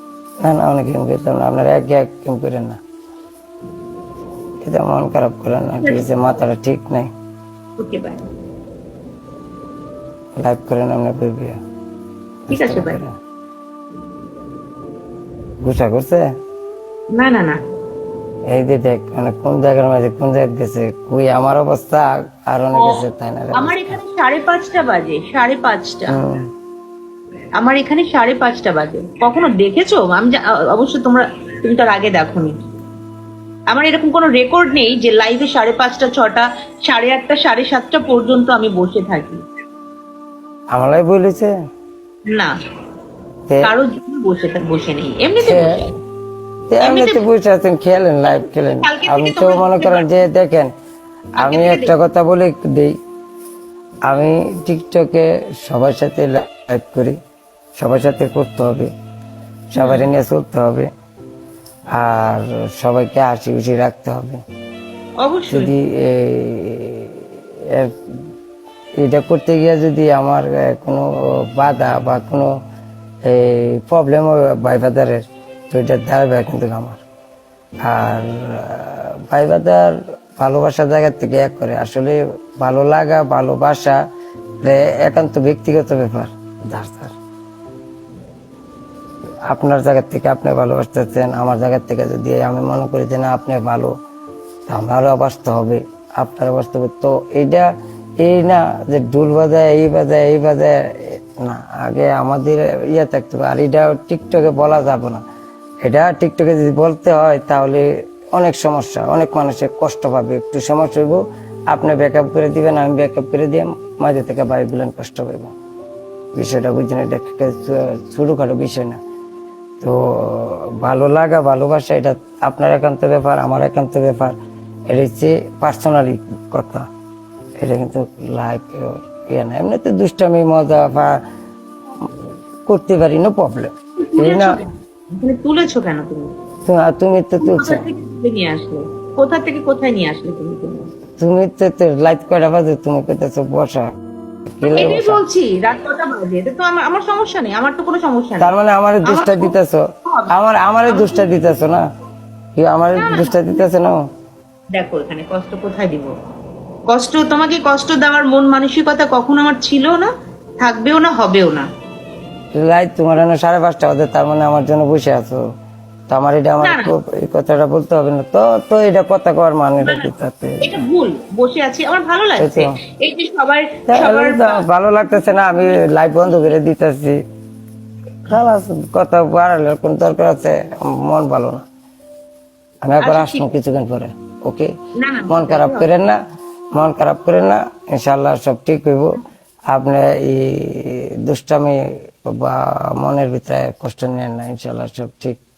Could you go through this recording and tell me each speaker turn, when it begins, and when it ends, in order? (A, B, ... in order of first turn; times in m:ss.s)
0:00.4-0:02.8 A
0:04.6-0:07.1 A
0:05.8-0:06.1 B
0:07.8-0:08.2 B
0:10.4-0:11.6 A
0:12.5-0:13.1 A
0:12.5-0:13.0 B
0:15.6-0:16.3 A
0:17.1-0:17.6 B
0:18.5-0:24.0 A
0:23.6-0:26.2 B
0:26.1-0:26.4 A
0:27.6-0:32.6 B
0:33.7-0:39.4 B
0:40.7-0:41.5 A
0:43.6-0:45.9 B
0:45.4-0:45.8 A
0:46.7-0:50.7 A
0:46.8-0:47.2 B
0:48.2-0:50.2 B
0:51.4-0:53.0 A
0:51.4-0:51.9 B
0:54.1-0:57.2 A
0:57.8-0:58.9 A
0:59.7-1:00.9 A
0:59.8-1:00.1 B
1:01.9-1:04.4 A
1:05.2-1:05.7 B
1:05.5-1:07.9 A
1:09.0-1:12.5 A
1:13.3-1:17.0 A
1:17.8-1:24.0 A
1:24.6-1:27.1 A
1:29.5-1:33.9 A
1:34.7-1:37.7 A
1:38.2-1:45.2 A
1:45.8-1:55.5 A
1:56.4-1:59.0 A
1:59.8-2:04.3 A
2:04.9-2:06.9 A
2:07.6-2:11.2 A
2:12.6-2:14.6 A
2:14.0-2:16.3 B
2:16.6-2:17.8 A
2:17.4-2:20.9 B
2:21.2-2:23.9 A
2:24.5-2:25.2 A
2:24.6-2:28.5 B
2:28.4-2:31.8 A
2:29.0-2:29.5 B
2:30.0-2:30.3 B
2:30.9-2:31.4 B
2:32.6-2:34.0 A
2:32.9-2:33.6 B
2:34.7-2:36.1 B
2:36.9-2:41.7 B
2:42.6-2:45.4 A
2:46.1-2:50.8 A
2:46.6-2:46.9 B
2:49.8-2:54.6 B
2:52.4-2:52.8 A
2:53.9-2:57.2 A
2:55.3-2:55.6 B
2:58.3-3:01.6 A
3:02.8-3:04.7 A
3:03.0-3:03.5 B
3:05.0-3:05.9 B
3:05.3-3:06.2 A
3:06.7-3:09.2 A
3:09.7-3:15.4 A